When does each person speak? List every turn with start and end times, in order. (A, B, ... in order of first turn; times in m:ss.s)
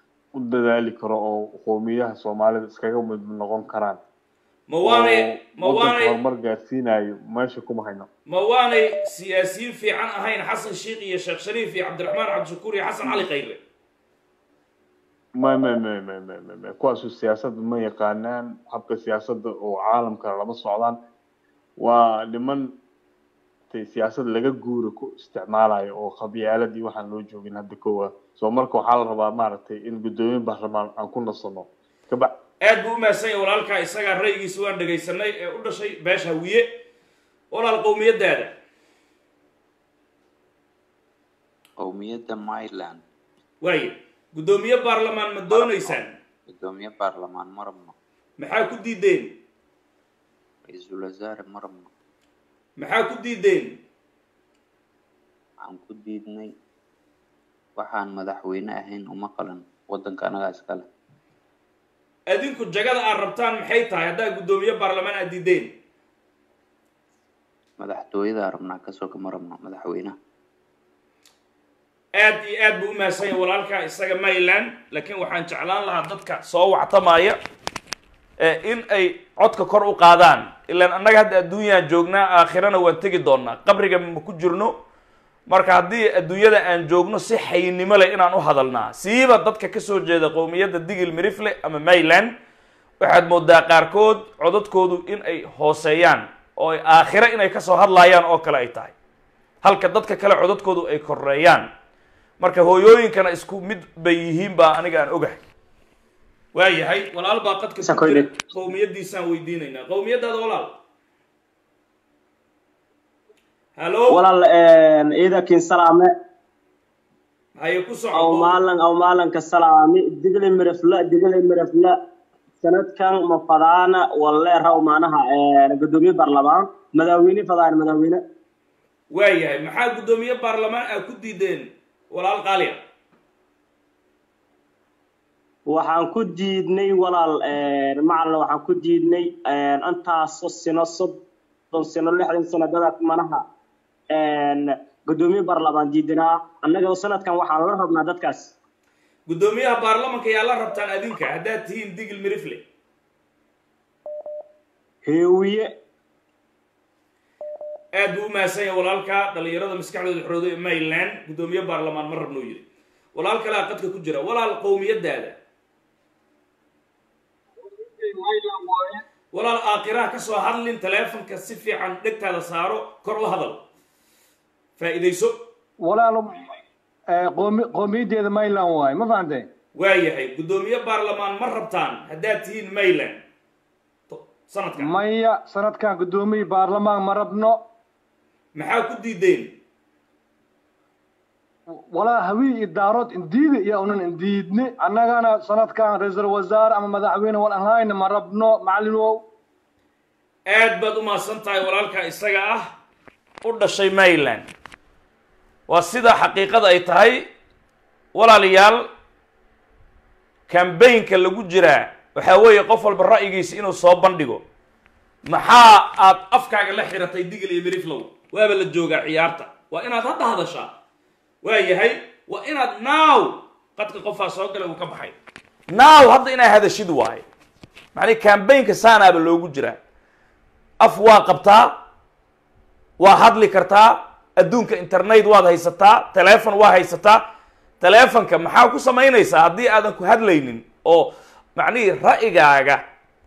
0:00.4-0:04.0 A
0:04.7-0:06.2 B
0:04.8-0:08.1 A
0:08.3-0:13.6 B
0:15.4-0:21.0 A
0:21.8-0:22.7 A
0:23.7-0:32.3 A
0:32.6-0:36.6 B
0:37.5-0:38.5 B
0:41.8-0:43.0 C
0:43.6-0:46.1 B
0:45.5-0:46.0 C
0:46.5-0:47.9 C
0:48.4-0:49.3 B
0:50.7-0:51.9 C
0:52.8-0:53.8 B
0:55.6-0:56.5 C
0:57.8-1:00.8 C
1:02.3-1:05.7 B
1:07.8-1:10.1 C
1:12.2-1:17.4 B
1:18.4-1:24.7 B
1:25.5-1:32.3 B
1:33.0-1:38.9 B
1:39.6-1:41.7 B
1:42.4-1:45.4 B
1:46.5-1:50.7 B
1:53.8-1:54.2 B
1:55.3-1:55.6 D
1:57.6-1:58.6 B
2:03.0-2:04.6 D
2:05.9-2:06.4 D
2:07.1-2:07.5 D
2:09.1-2:12.8 B
2:15.9-2:16.5 D
2:18.8-2:19.2 D
2:20.1-2:20.9 D
2:22.0-2:23.2 D
2:25.5-2:26.1 D
2:28.0-2:28.5 D
2:29.3-2:32.6 B
2:37.9-2:42.6 B
2:43.1-2:45.4 B
2:48.0-2:48.8 E
2:49.3-2:53.6 B
2:54.8-2:55.4 B
2:55.8-2:56.3 E
2:57.2-2:59.4 E
2:59.8-3:03.2 B
3:04.1-3:05.0 B
3:04.8-3:07.6 E
3:08.5-3:09.5 B
3:11.9-3:19.2 E
3:20.5-3:22.6 B
3:23.4-3:24.5 B
3:25.7-3:27.2 B
3:28.1-3:28.8 B
3:30.5-3:34.4 B
3:35.2-3:40.7 B
3:41.4-3:45.1 B
3:45.7-3:47.2 B
3:48.0-3:49.8 B
3:50.8-3:51.8 B
3:53.0-3:57.2 B
3:57.8-4:02.8 B